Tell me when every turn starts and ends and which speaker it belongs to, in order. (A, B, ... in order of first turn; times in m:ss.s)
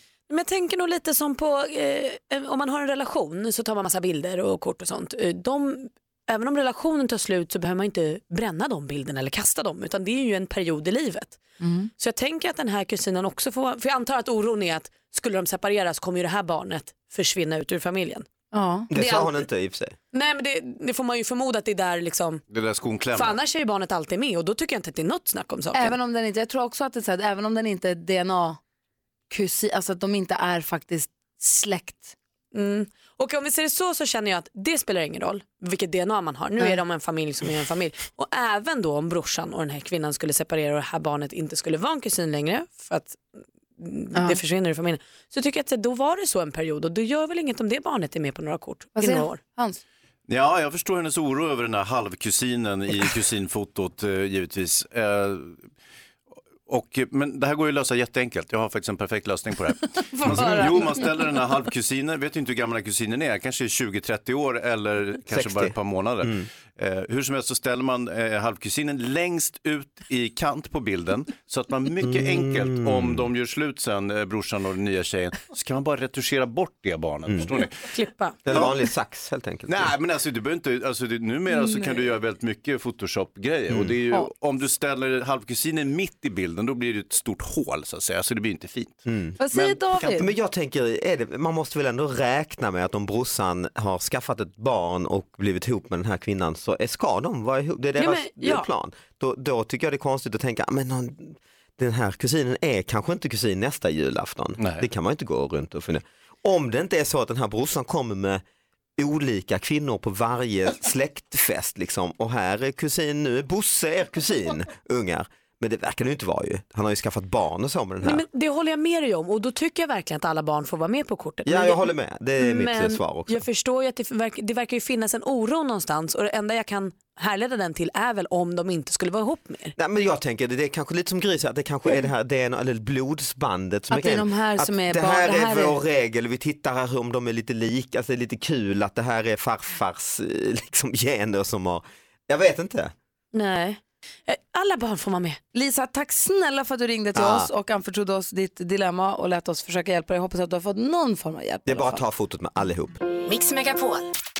0:00.3-0:11.4 A
0:11.6-0:11.9 B
0:12.0-0:18.2 A
0:18.5-0:19.1 B
0:18.9-0:19.9 C
0:19.0-0:19.3 A
0:20.1-0:22.4 A
0:22.5-0:23.4 D
0:23.1-0:25.9 A
0:25.7-0:28.6 B
0:29.3-0:32.1 B
0:32.5-0:43.2 A
0:43.8-0:49.4 A
0:49.0-0:49.8 B
0:50.3-0:55.6 D
0:56.6-1:17.7 D
1:00.1-1:01.3 B
1:05.3-1:06.4 C
1:12.0-1:13.3 C
1:17.8-1:18.4 A
1:18.4-1:19.9 C
1:18.5-1:18.7 D
1:19.7-1:30.2 D
1:21.5-1:22.0 B
1:23.7-1:23.9 C
1:29.1-1:29.4 C
1:29.4-1:30.3 B
1:30.1-1:48.4 C
1:38.0-1:38.7 A
1:49.0-1:58.2 C
1:58.0-2:09.7 A
2:01.4-2:03.4 C
2:09.8-2:22.9 C
2:13.9-2:15.8 B
2:24.3-2:25.4 A
2:25.5-2:32.0 B
2:27.1-2:27.5 C
2:31.6-2:32.9 C
2:33.3-2:34.0 A